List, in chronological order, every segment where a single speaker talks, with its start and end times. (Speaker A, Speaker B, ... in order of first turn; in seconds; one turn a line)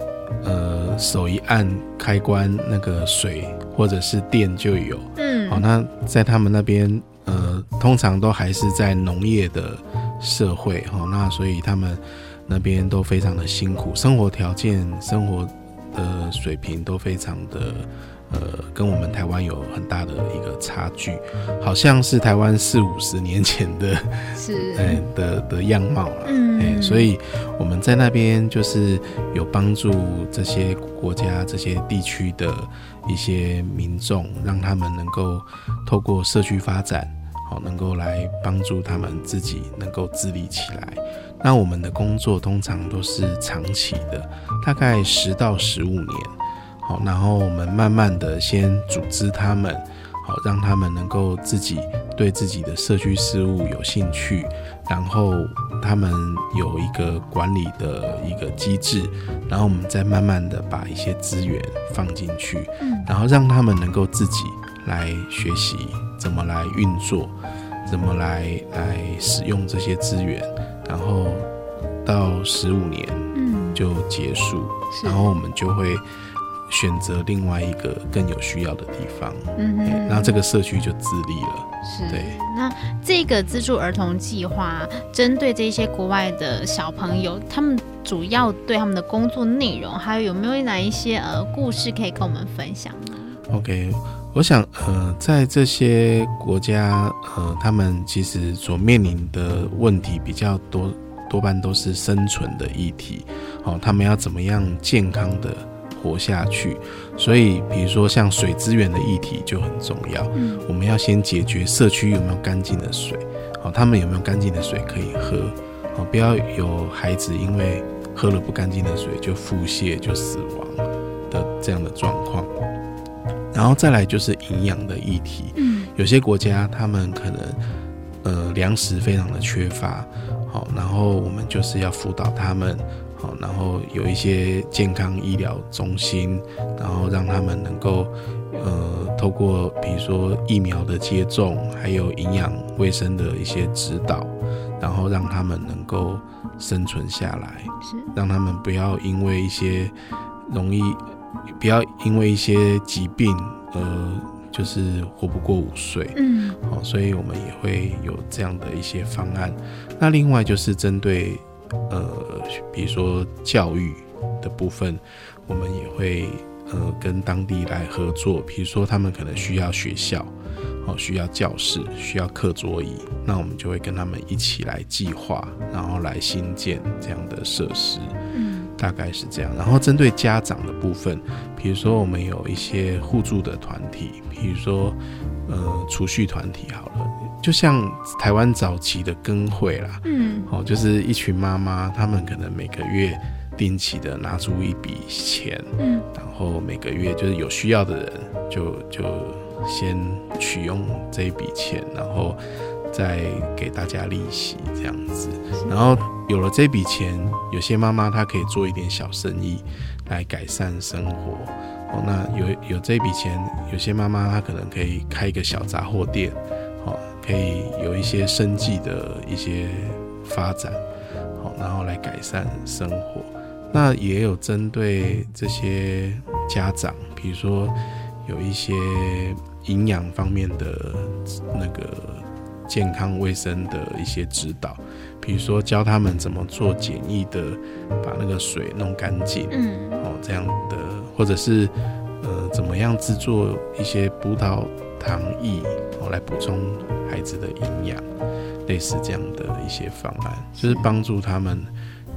Speaker A: 0.4-67.3
Speaker B: 5.2-5.6
Speaker B: 24.3-25.0
Speaker B: 26.2-27.1
Speaker B: 62.8-63.1
Speaker A: 67.9-71.5
Speaker A: 72.0-76.0
Speaker B: 73.3-73.8
Speaker B: 74.9-75.2
Speaker A: 76.7-82.4
Speaker B: 79.5-80.4
Speaker B: 81.8-93.4
Speaker A: 93.5-122.5
Speaker B: 110.3-110.7
Speaker A: 123.5-127.6
Speaker B: 125.5-125.9
Speaker A: 128.2-149.9
Speaker B: 147.8-148.1
Speaker A: 150.5-151.0
Speaker A: 151.6-178.2
Speaker B: 156.1-156.6
Speaker B: 178.3-178.7
Speaker A: 178.8-202.4
Speaker B: 190.0-190.5
Speaker B: 195.8-196.1
Speaker A: 202.9-220.8
Speaker A: 221.4-248.1
Speaker B: 239.5-240.1
Speaker A: 248.7-251.7
Speaker B: 250.6-250.9